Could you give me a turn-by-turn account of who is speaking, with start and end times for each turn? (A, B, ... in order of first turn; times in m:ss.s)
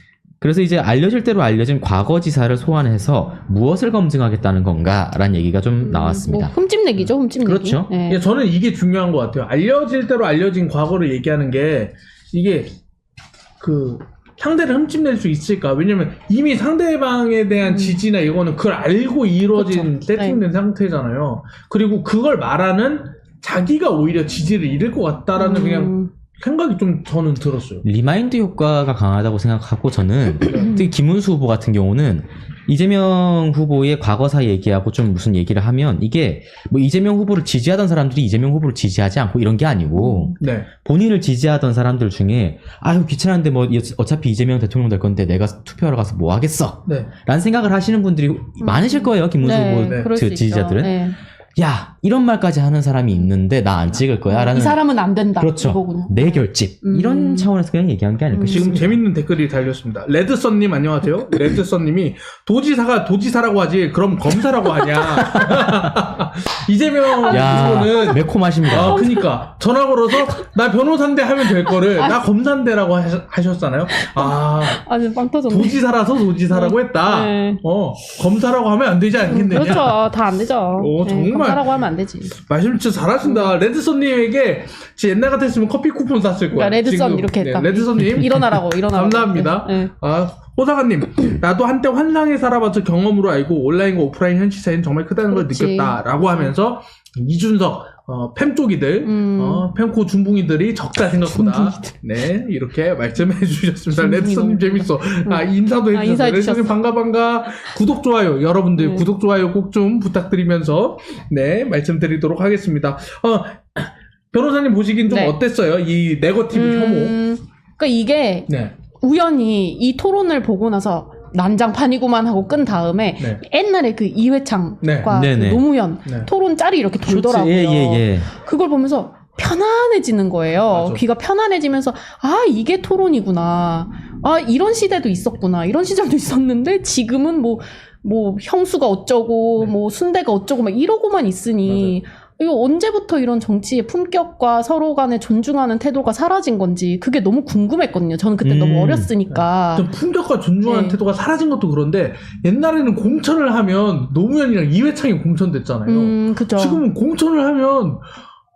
0:00.4-0:06.5 A
0:05.8-0:08.2 B
0:07.4-0:07.9 A
0:08.1-0:12.7 C
0:13.6-0:27.8 C
0:17.7-0:18.0 B
0:19.5-0:20.4 B
0:25.4-0:26.1 B
0:27.8-0:51.0 A
0:30.5-0:30.9 B
0:40.0-0:40.4 B
0:40.4-0:40.7 C
0:48.6-0:51.2 B
0:51.6-0:54.8 A
0:54.3-0:57.5 B
0:55.4-0:59.0 A
0:58.3-0:58.7 B
0:58.5-1:14.8 C
1:05.2-1:05.9 A
1:07.2-1:09.3 B
1:07.3-1:09.1 A
1:11.7-1:12.2 B
1:13.9-1:15.8 B
1:15.5-1:20.0 C
1:16.5-1:17.6 B
1:19.3-1:22.3 B
1:20.8-1:21.7 C
1:22.4-1:57.2 C
1:23.2-1:23.5 B
1:26.5-1:29.9 B
1:35.3-1:36.5 B
1:39.0-1:39.7 B
1:41.2-1:41.9 B
1:43.9-1:46.8 B
1:48.8-1:49.1 B
1:55.1-1:55.4 B
1:56.5-2:29.9 B
1:58.5-1:58.7 C
2:04.8-2:05.1 C
2:05.1-2:05.6 A
2:07.0-2:08.3 A
2:10.7-2:11.0 C
2:21.6-2:21.9 C
2:28.4-2:29.1 A
2:29.3-2:38.0 C
2:30.6-2:31.0 B
2:35.9-2:36.8 B